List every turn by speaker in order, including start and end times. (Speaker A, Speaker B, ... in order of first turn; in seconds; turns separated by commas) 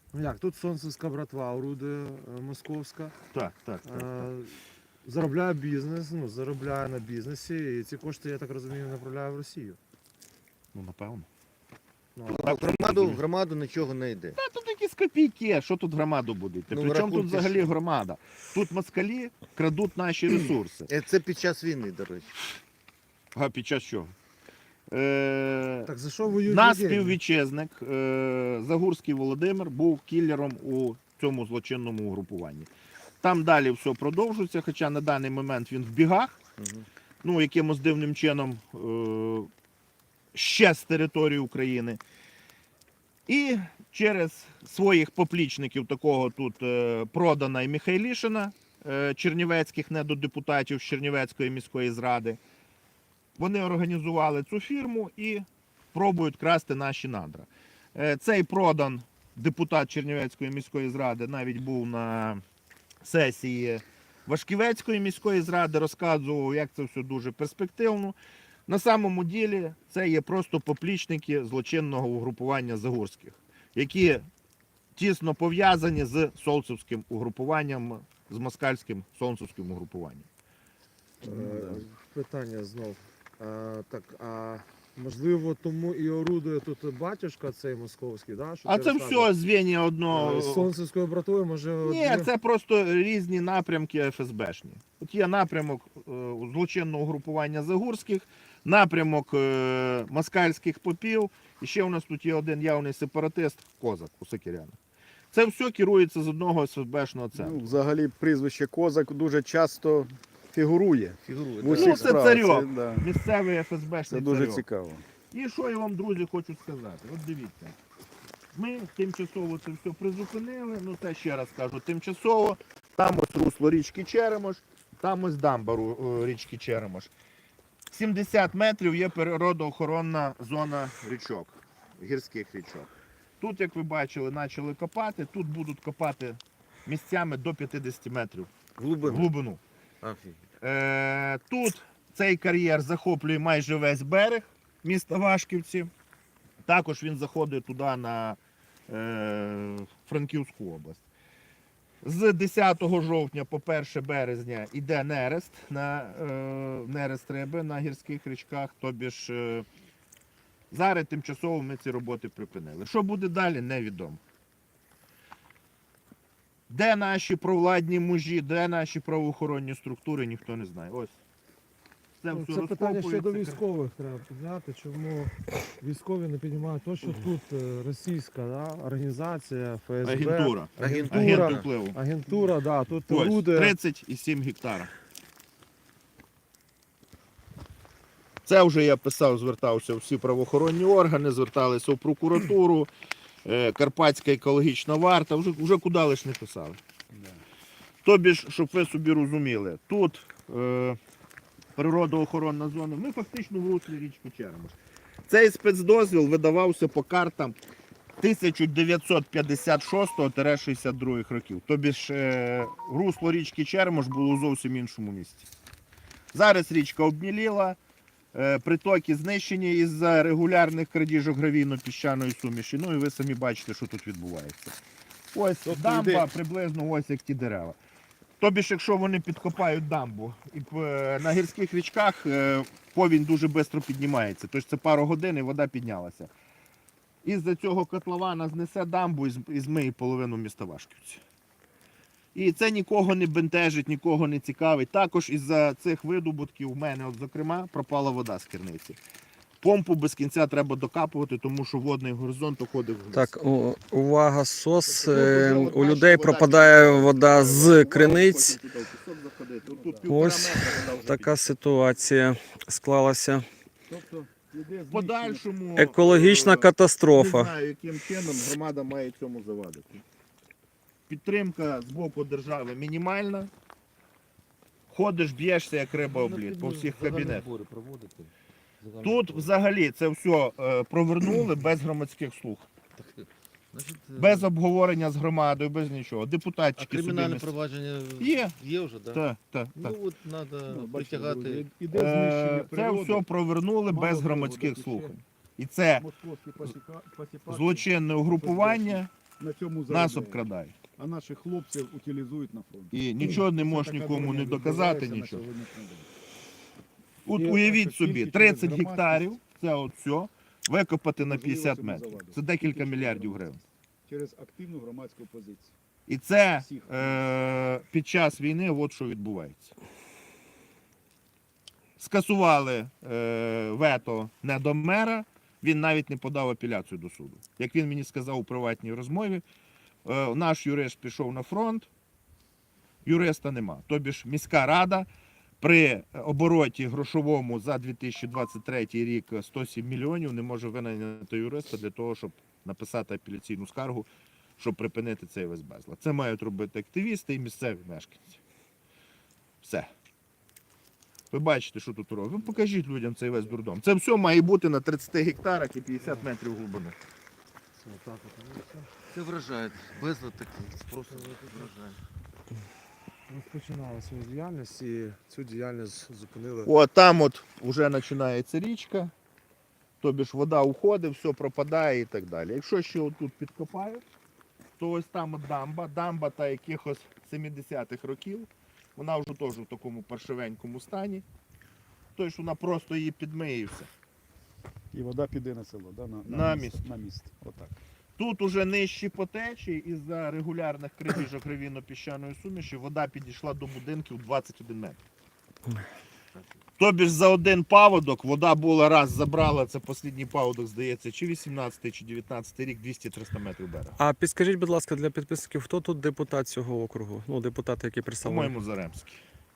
Speaker A: 0.1-3.1, Speaker B: 3.3-4.3, Speaker A: 3.8-9.8, Speaker B: 10.7-11.3, Speaker A: 12.2-12.4, Speaker C: 12.3-14.4, Speaker B: 12.4-13.2, Speaker B: 14.4-20.9, Speaker C: 16.7-17.7, Speaker C: 20.3-22.3, Speaker B: 23.4-24.1, Speaker B: 24.9-25.9, Speaker A: 25.9-27.2, Speaker B: 26.5-36.4, Speaker C: 36.6-36.9, Speaker B: 37.2-39.5, Speaker B: 40.3-42.0, Speaker B: 43.3-52.4, Speaker B: 53.4-62.4, Speaker B: 63.0-74.3, Speaker B: 75.0-80.3, Speaker A: 81.2-89.3, Speaker D: 81.2-81.8, Speaker B: 88.7-90.7, Speaker A: 90.1-92.3, Speaker B: 91.8-104.8, Speaker B: 105.3-107.8, Speaker D: 107.3-113.1, Speaker C: 111.2-112.2, Speaker B: 111.7-114.6, Speaker D: 114.1-115.0, Speaker B: 115.3-117.8, Speaker B: 118.5-127.1, Speaker B: 127.9-139.6, Speaker C: 138.8-139.3, Speaker C: 140.0-140.4, Speaker B: 140.6-145.9, Speaker B: 146.7-148.4, Speaker B: 148.9-151.1, Speaker B: 152.0-159.7, Speaker B: 160.7-164.2, Speaker B: 166.7-171.2, Speaker B: 172.2-173.6, Speaker A: 172.3-183.7, Speaker B: 180.0-182.0, Speaker C: 180.7-181.8, Speaker B: 183.1-184.9, Speaker B: 188.4-192.9, Speaker B: 193.4-196.8, Speaker D: 197.1-197.4, Speaker B: 198.0-201.0, Speaker B: 201.8-204.8, Speaker B: 205.3-207.6, Speaker B: 208.2-215.5, Speaker B: 216.3-217.8, Speaker B: 218.3-224.8, Speaker B: 225.3-227.8, Speaker D: 225.7-226.3, Speaker B: 228.4-236.3, Speaker B: 237.2-241.2, Speaker B: 242.3-249.0, Speaker B: 249.6-253.4, Speaker E: 253.1-258.5, Speaker D: 254.9-255.8, Speaker B: 255.1-261.4, Speaker D: 259.6-260.1, Speaker E: 260.1-263.5, Speaker D: 263.9-265.4, Speaker B: 264.9-270.0, Speaker E: 265.8-267.5, Speaker B: 271.1-273.5, Speaker B: 274.9-277.5, Speaker C: 276.1-279.5, Speaker B: 279.0-282.7, Speaker C: 283.0-284.5, Speaker B: 284.2-287.5, Speaker C: 286.8-289.2, Speaker B: 288.2-288.6, Speaker B: 289.1-290.0, Speaker C: 289.8-291.7, Speaker D: 290.7-293.3, Speaker B: 291.9-296.1, Speaker D: 293.9-295.2, Speaker D: 296.0-300.4, Speaker B: 297.5-299.1, Speaker B: 299.9-300.8, Speaker D: 301.0-306.1, Speaker B: 302.9-305.5, Speaker B: 307.2-313.6, Speaker D: 307.4-309.4, Speaker D: 311.2-315.7, Speaker B: 316.1-319.8, Speaker D: 316.6-317.2, Speaker B: 322.0-329.4, Speaker B: 330.1-331.9, Speaker B: 333.1-335.1, Speaker B: 335.6-348.4, Speaker B: 349.6-349.9, Speaker B: 351.3-357.0, Speaker A: 356.0-356.3, Speaker A: 357.8-358.9, Speaker C: 359.1-362.0, Speaker A: 361.1-361.7, Speaker A: 363.3-366.7, Speaker B: 366.7-369.1, Speaker B: 370.0-374.0, Speaker B: 374.8-381.2, Speaker B: 382.2-383.9, Speaker D: 384.9-387.8, Speaker B: 386.3-386.8, Speaker B: 388.2-395.0, Speaker B: 396.8-404.0, Speaker E: 404.0-408.6, Speaker B: 408.2-409.2